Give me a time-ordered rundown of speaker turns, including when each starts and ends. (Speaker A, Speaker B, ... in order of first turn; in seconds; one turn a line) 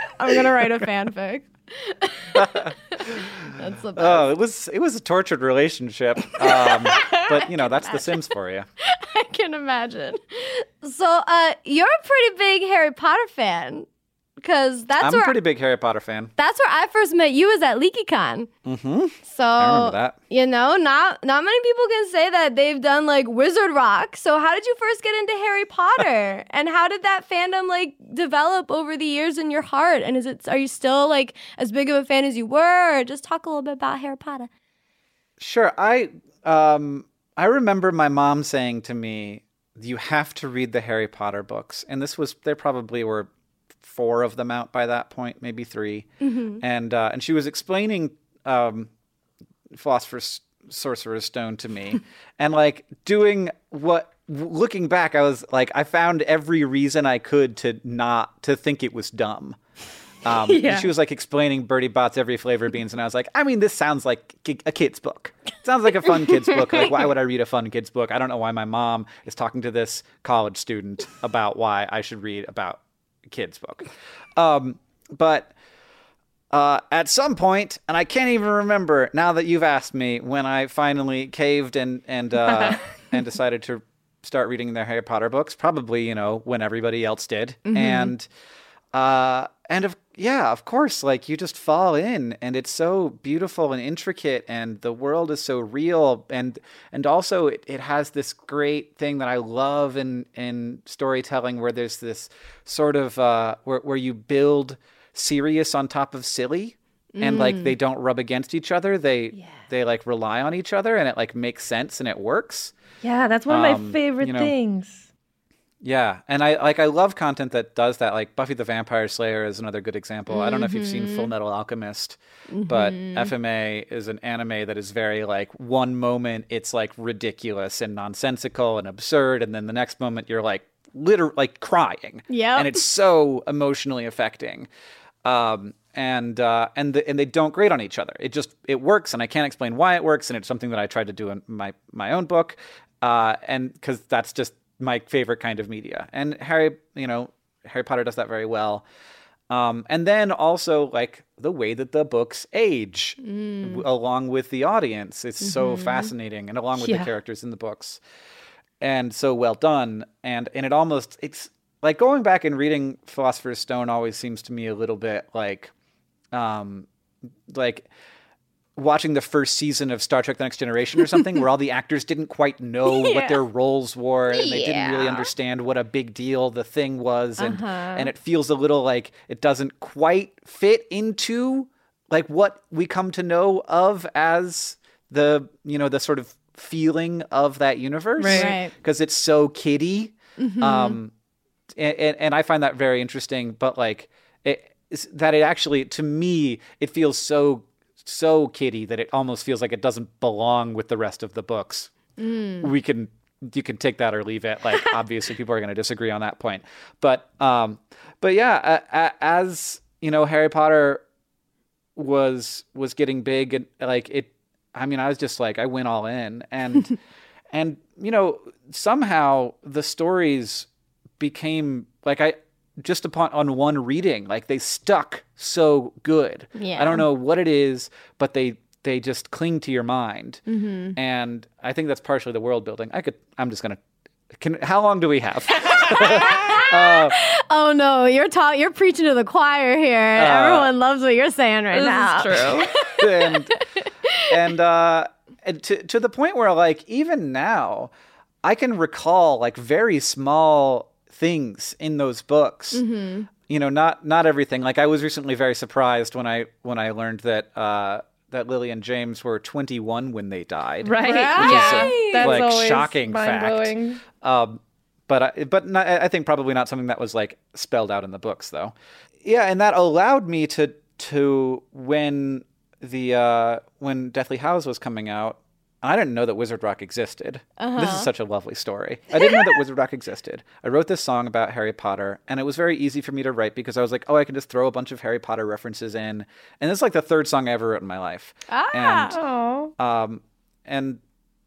Speaker A: 0.2-4.3
Speaker B: 2.3-8.7
Speaker A: 6.4-8.3
Speaker A: 8.8-13.9
Speaker A: 14.4-15.3
Speaker B: 15.0-16.3
Speaker A: 16.4-18.5
Speaker B: 18.6-20.1
Speaker A: 19.3-34.5
Speaker B: 35.4-43.3
Speaker B: 43.8-46.1
Speaker A: 46.2-46.6
Speaker B: 46.6-48.9
Speaker B: 49.7-59.6
Speaker B: 60.2-75.5
Speaker C: 60.3-60.9
Speaker B: 76.5-88.3
Speaker A: 87.6-88.1
Speaker B: 88.9-112.7
Speaker A: 107.1-107.7
Speaker C: 113.0-115.1
Speaker B: 113.5-114.5
Speaker B: 115.8-134.7
Speaker A: 120.3-121.3
Speaker A: 122.5-123.3
Speaker A: 132.3-132.8
Speaker B: 135.2-148.8
Speaker B: 149.5-158.0
Speaker A: 153.2-153.8
Speaker A: 155.4-156.1
Speaker C: 156.8-157.1
Speaker B: 158.8-165.7
Speaker B: 166.3-166.9
Speaker B: 167.5-167.9
Speaker B: 168.8-191.1
Speaker A: 172.9-173.4
Speaker C: 174.3-175.3
Speaker A: 177.4-178.1
Speaker C: 188.2-188.5
Speaker A: 188.2-188.7
Speaker A: 190.4-191.0
Speaker B: 191.7-201.9
Speaker A: 202.2-202.7
Speaker B: 202.6-211.0
Speaker B: 211.9-216.9
Speaker B: 217.5-230.4
Speaker A: 226.6-227.0
Speaker A: 230.5-230.9
Speaker B: 230.9-233.8
Speaker B: 234.3-237.2
Speaker A: 235.8-244.4
Speaker B: 240.2-240.7
Speaker C: 241.7-242.7
Speaker B: 242.4-243.5
Speaker B: 244.3-247.9
Speaker B: 248.4-252.8
Speaker A: 252.7-253.3
Speaker B: 253.5-289.2
Speaker C: 260.8-264.0
Speaker A: 261.0-262.3
Speaker A: 277.6-278.1
Speaker A: 288.5-289.2
Speaker C: 289.1-289.7
Speaker B: 289.8-291.0